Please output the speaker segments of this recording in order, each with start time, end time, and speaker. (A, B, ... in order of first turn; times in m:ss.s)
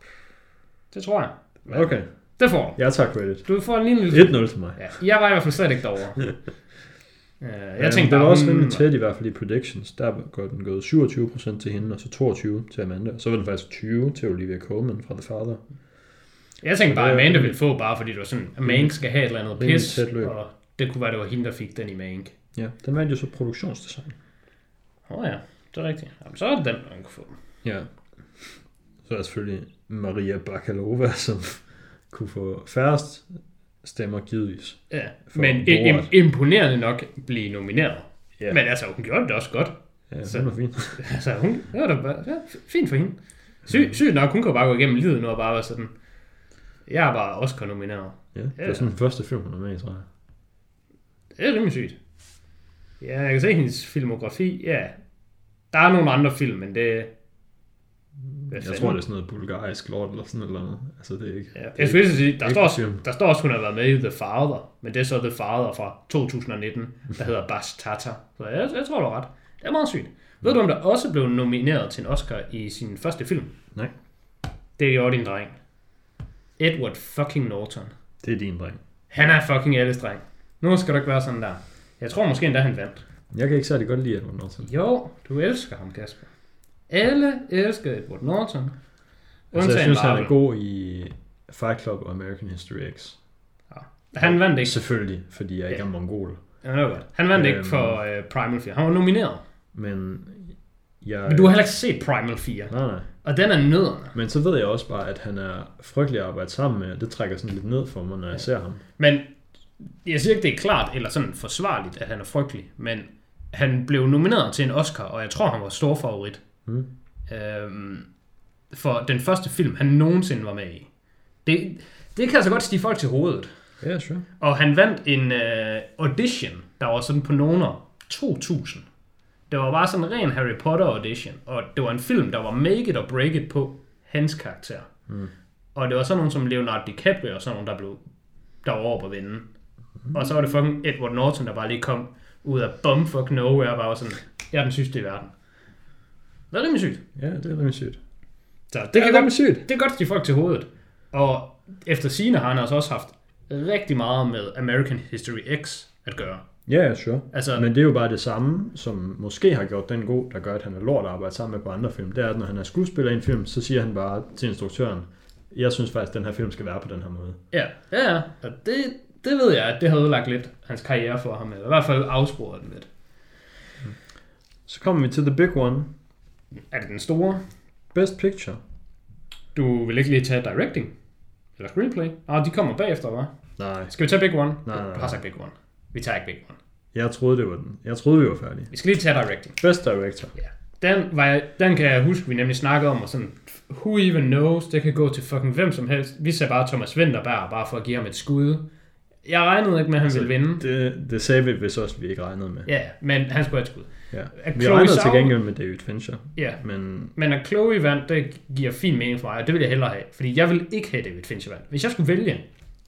0:00.9-0:02.8 A
0:01.7-0:02.1 B
0:02.6-0:05.0 B
0:03.4-0:06.3 A
0:07.4-0:08.8 A
0:07.8-0:15.6 B
0:16.6-0:22.3 A
0:16.8-0:17.6 B
0:18.6-0:20.3 B
0:22.5-0:24.2 B
0:25.1-0:27.4 A
0:27.6-0:36.1 B
0:34.9-0:45.9 A
0:40.1-0:41.0 B
0:43.6-0:44.0 B
0:46.8-0:48.9 A
0:48.3-0:50.1 B
0:51.4-0:52.0 A
0:53.0-0:54.9 A
0:55.7-0:57.1 A
0:58.4-1:03.0 B
0:58.5-0:59.0 A
1:01.5-1:13.5 A
1:14.8-1:15.6 A
1:16.6-1:17.9 A
1:18.2-1:18.8 B
1:19.1-1:23.0 A
1:23.3-1:24.7 B
1:24.6-1:26.3 A
1:26.9-1:28.8 A
1:29.5-1:33.2 B
1:29.5-1:30.3 A
1:33.7-1:34.8 A
1:34.2-1:36.4 B
1:36.6-1:39.4 A
1:37.3-1:38.0 B
1:39.7-1:41.6 B
1:41.3-1:44.1 A
1:42.7-1:43.1 B
1:44.1-1:48.8 B
1:49.0-1:49.3 A
1:50.0-1:56.4 A
1:57.3-1:58.1 A
1:58.7-2:00.9 A
2:01.4-2:03.5 A
2:03.8-2:04.2 B
2:04.4-2:08.8 A
2:09.5-2:14.9 A
2:15.7-2:18.0 A
2:18.6-2:19.4 A
2:20.1-2:25.3 A
2:26.5-2:27.0 A
2:27.2-2:28.0 B
2:28.7-2:36.4 A
2:28.9-2:29.6 B
2:36.7-2:47.4 B
2:37.3-2:37.6 A
2:47.5-2:52.9 A
2:54.6-2:55.9 B
2:56.7-2:57.4 A
2:57.9-2:58.6 B
2:59.5-3:00.9 A
3:01.6-3:03.3 A
3:03.6-3:04.0 B
3:03.9-3:06.6 A
3:04.6-3:05.2 B
3:06.9-3:08.7 B
3:08.7-3:09.6 A
3:09.6-3:10.3 B
3:10.4-3:18.6 A
3:19.2-3:20.6 A
3:20.0-3:22.7 B
3:22.7-3:25.4 A
3:24.1-3:27.1 B
3:27.1-3:32.4 A